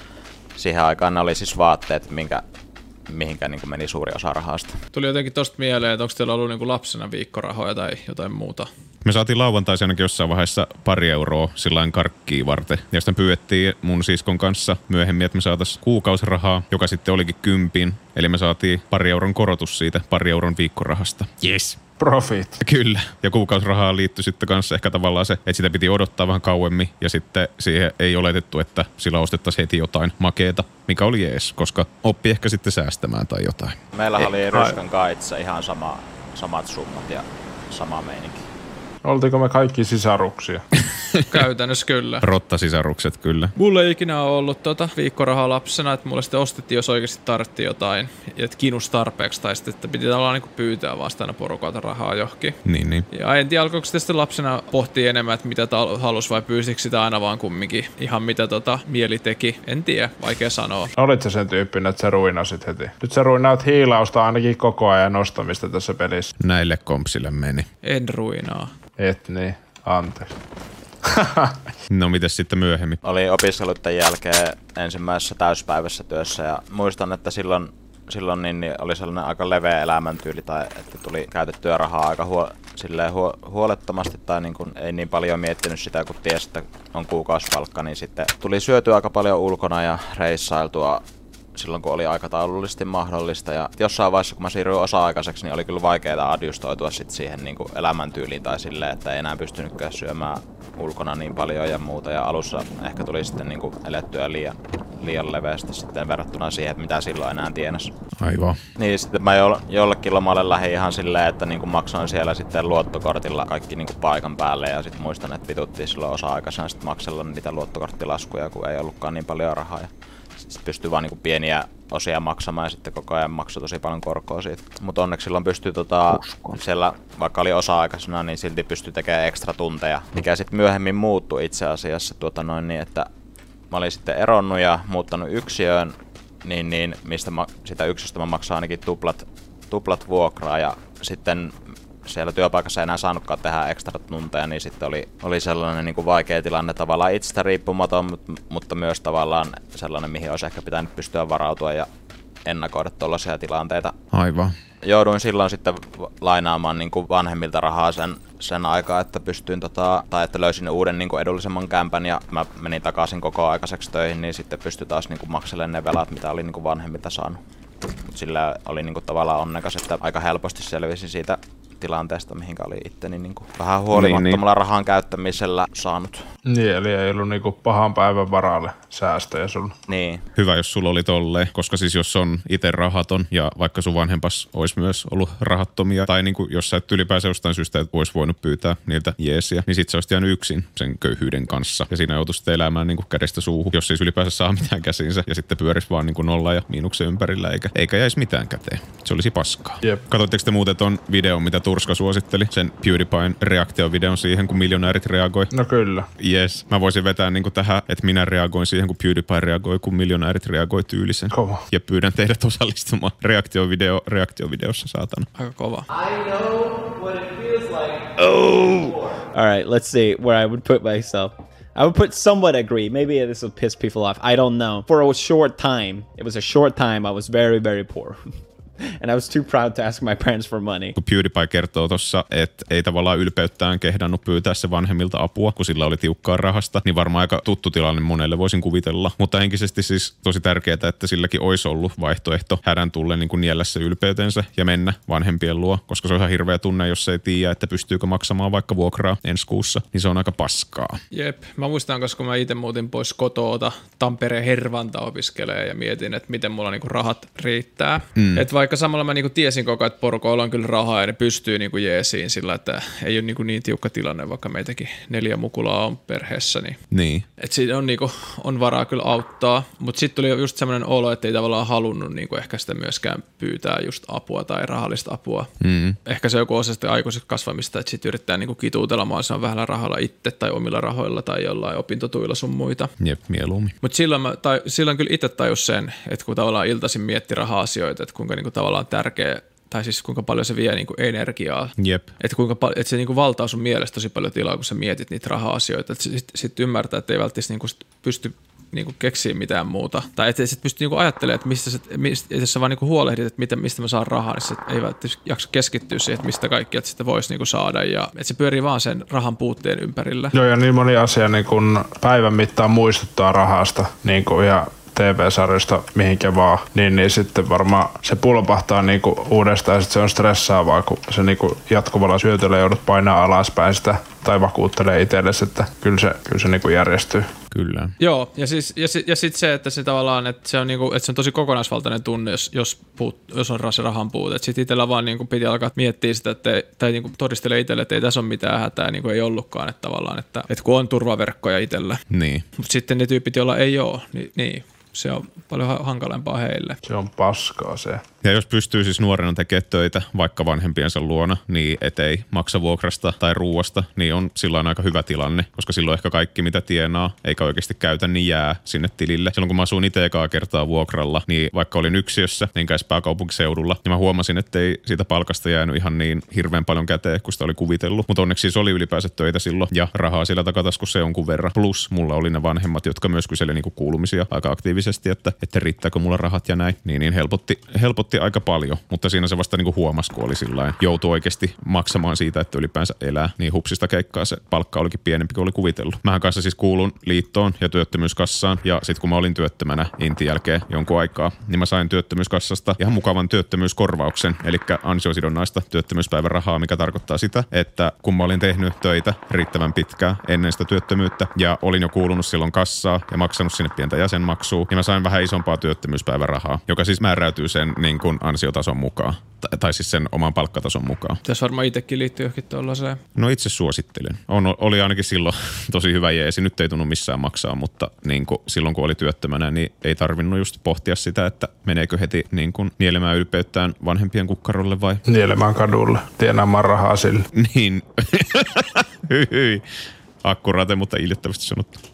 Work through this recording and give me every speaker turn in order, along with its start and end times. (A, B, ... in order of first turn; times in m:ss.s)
0:00.6-0:02.4 A
0:03.1-0:04.8 A
0:04.9-0:08.7 B
0:09.0-0:21.8 C
0:22.0-0:22.6 D
0:22.6-0:33.8 C
0:33.9-0:38.5 A
0:39.0-0:40.6 D
0:41.3-0:42.2 B
0:42.2-0:43.6 C
0:43.6-0:52.6 B
0:52.7-0:53.1 C
0:53.1-1:00.9 B
1:01.0-1:06.3 D
1:06.4-1:07.7 C
1:07.8-1:08.7 B
1:09.0-1:10.4 D
1:11.0-1:11.7 D
1:11.9-1:13.0 C
1:13.0-1:31.0 A
1:31.6-1:47.9 A
1:48.2-1:48.6 C
1:48.8-1:59.9 A
2:00.4-2:13.1 A
2:13.7-2:21.5 A
2:22.0-2:31.9 A
2:32.5-2:34.0 A
2:34.1-2:34.6 C
2:34.8-2:47.4 A
2:48.1-2:56.2 A
2:53.9-2:54.4 C
2:56.5-2:59.8 D
2:59.9-3:00.2 A
3:00.4-3:25.5 C
3:25.5-3:26.1 D
3:26.2-3:35.3 C
3:31.3-3:31.6 D
3:35.4-3:35.9 B
3:35.9-3:48.2 E
3:49.0-3:51.0 E
3:51.0-4:11.0 C
4:11.1-4:26.8 B
4:18.2-4:18.4 C
4:26.9-4:27.3 C
4:27.4-4:35.5 B
4:35.6-4:36.0 C
4:36.0-4:42.9 B
4:43.0-4:43.7 C
4:43.8-5:10.3 B
4:51.8-4:52.1 C
5:10.3-5:27.3 D
5:27.5-5:27.9 C
5:28.0-5:42.0 B
5:42.1-5:42.4 C
5:42.6-5:46.8 B
5:46.8-5:48.0 D
5:48.2-6:51.2 C
6:51.2-6:53.0 B
6:53.2-7:05.0 C
7:05.1-7:07.3 D
7:07.3-7:09.6 C
7:10.2-7:11.8 C